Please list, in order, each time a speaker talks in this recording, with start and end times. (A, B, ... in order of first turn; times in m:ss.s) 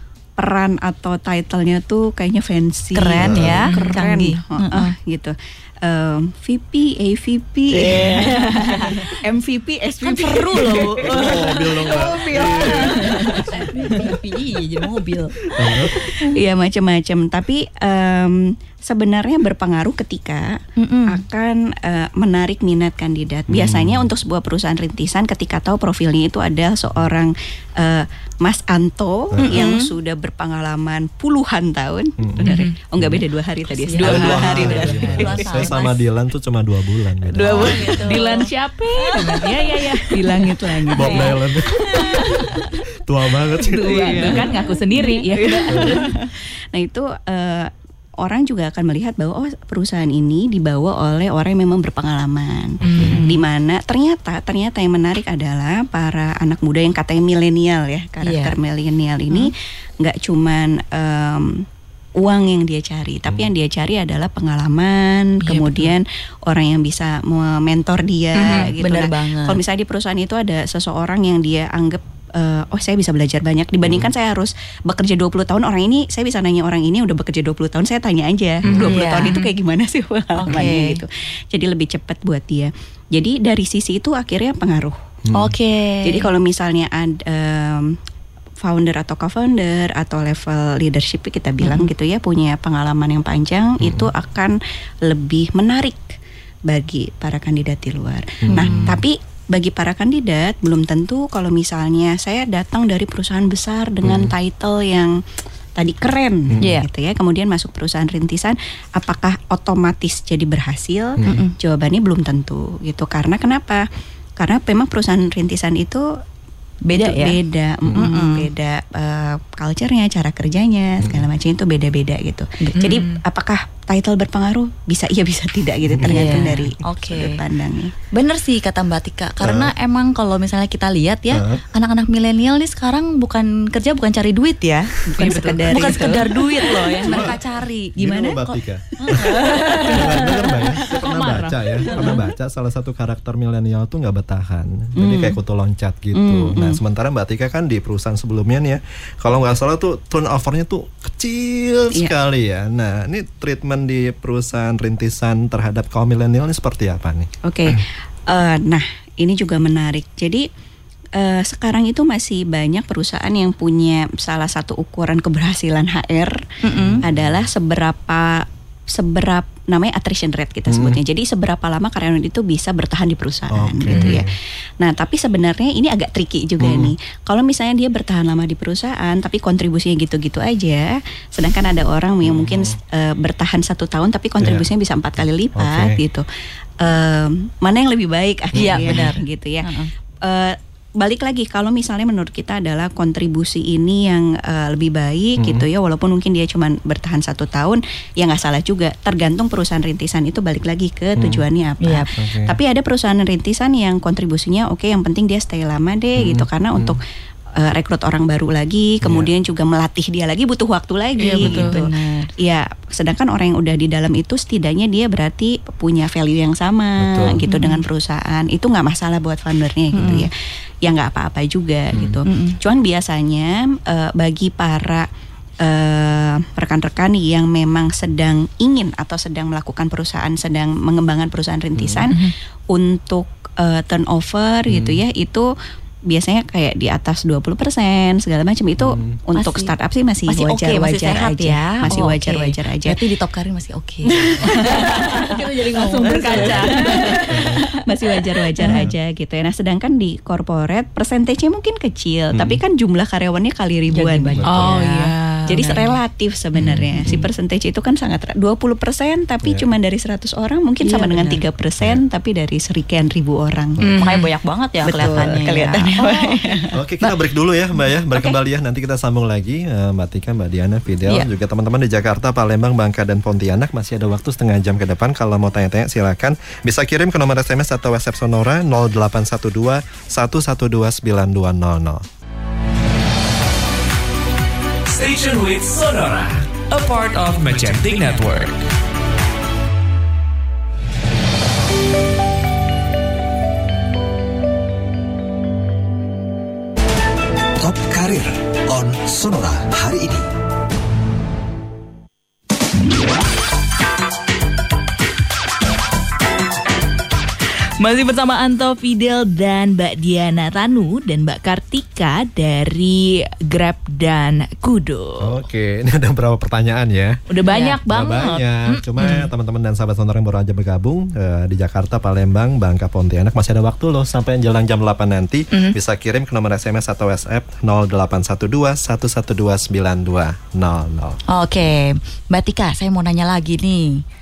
0:00.4-0:14.0 A
0:02.9-0:04.9 B
0:03.2-0:03.6 C
0:03.7-0:03.9 D
0:07.7-0:09.1 B
0:07.9-0:08.2 C
0:10.0-0:16.3 B
0:11.0-0:13.4 C
0:15.5-0:15.9 C
0:15.9-0:35.7 A
0:20.8-0:21.2 B
0:23.5-0:24.1 C
0:29.3-0:29.6 C
0:29.4-0:29.9 B
0:32.2-0:33.2 C
0:32.4-0:32.7 D
0:33.7-0:36.0 B
0:33.9-0:35.3 D
0:34.0-0:38.0 C
0:37.3-0:38.5 B
0:37.4-0:41.3 D
0:37.6-0:38.0 A
0:39.0-0:39.5 B
0:40.1-0:41.3 A
0:40.9-0:44.4 C
0:41.0-0:41.3 B
0:41.9-0:42.5 D
0:43.6-0:46.2 D
0:43.8-0:44.6 A
0:44.9-0:45.2 B
0:45.4-1:01.6 A
0:45.7-0:46.0 C
0:52.8-0:53.4 D
0:52.8-0:53.2 C
0:53.0-0:53.2 B
0:58.2-0:58.6 B
1:02.2-1:25.0 A
1:03.3-1:03.5 C
1:05.4-1:05.9 D
1:08.4-1:09.6 B
1:08.4-1:08.7 D
1:18.6-1:19.0 C
1:18.8-1:19.4 B
1:19.2-1:19.5 D
1:20.4-1:21.0 B
1:25.2-1:25.6 C
1:25.3-1:26.3 B
1:26.0-1:28.0 A
1:28.6-1:45.2 A
1:31.6-1:31.9 B
1:33.8-1:34.1 C
1:38.4-1:39.0 C
1:38.5-1:39.0 B
1:44.0-1:44.3 C
1:45.8-1:53.8 A
1:46.5-1:46.8 C
1:46.6-1:46.9 B
1:51.2-1:51.4 C
1:51.2-1:51.5 B
1:54.4-1:56.1 A
1:56.9-1:57.4 B
1:56.9-2:07.9 A
1:57.9-1:58.5 B
2:01.0-2:01.3 C
2:02.6-2:03.0 B
2:02.8-2:03.2 D
2:05.8-2:06.6 C
2:06.0-2:07.4 B
2:08.1-2:20.5 B
2:09.4-2:09.7 C
2:11.3-2:11.6 C
2:15.1-2:17.3 A
2:15.2-2:16.2 D
2:17.0-2:17.4 C
2:18.0-2:19.3 C
2:19.0-2:19.9 A
2:19.9-2:37.8 C
2:20.9-2:22.2 D
2:25.0-2:25.4 A
2:26.1-2:26.8 A
2:37.4-2:40.5 A
2:41.2-2:46.4 A
2:46.6-2:47.0 B
2:46.7-2:47.4 C
2:47.0-3:06.2 A
2:50.7-2:51.0 C
2:53.5-2:54.3 C
2:56.6-2:56.9 C
3:02.2-3:02.8 C
3:04.4-3:04.7 C
3:05.6-3:06.0 C
3:06.8-3:09.7 A
3:08.5-3:09.1 C
3:08.5-3:09.9 B
3:10.2-3:27.0 A
3:15.4-3:15.7 C
3:21.2-3:21.4 C
3:21.8-3:22.1 B
3:22.1-3:22.5 C
3:26.2-3:27.0 C
3:27.6-3:40.3 A
3:29.0-3:29.3 C
3:31.2-3:31.8 D
3:31.4-3:32.3 B
3:37.0-3:37.4 C
3:37.4-3:37.8 B
3:39.9-3:40.3 B
3:40.8-3:45.1 A
3:41.9-3:42.2 C
3:42.2-3:42.6 B
3:45.6-3:55.5 A
3:51.7-3:52.0 C
3:54.7-3:55.0 C
3:56.1-4:03.0 A
3:58.8-3:59.2 C
3:59.4-3:59.7 B
4:00.3-4:07.8 B
4:04.2-4:04.5 C
4:04.3-4:23.8 A
4:04.6-4:07.3 D
4:07.3-4:07.6 C
4:08.6-4:08.8 B
4:08.6-4:08.9 C
4:12.3-4:12.6 C
4:13.9-4:14.6 B
4:14.3-4:14.7 C
4:14.4-4:15.8 D
4:15.6-4:15.8 B
4:16.6-4:17.2 C
4:19.4-4:19.7 C
4:20.8-4:21.4 B
4:23.8-4:24.1 C
4:23.8-4:24.3 D
4:24.0-4:27.2 B
4:24.8-4:26.7 A
4:26.7-4:42.0 C
4:28.1-4:28.4 B
4:44.9-4:48.6 E
4:57.6-5:00.2 F
5:07.8-5:15.3 D
5:15.2-5:17.2 C
5:17.3-5:19.3 D
5:17.5-5:17.8 B
5:17.8-5:31.2 C
5:31.3-5:34.0 B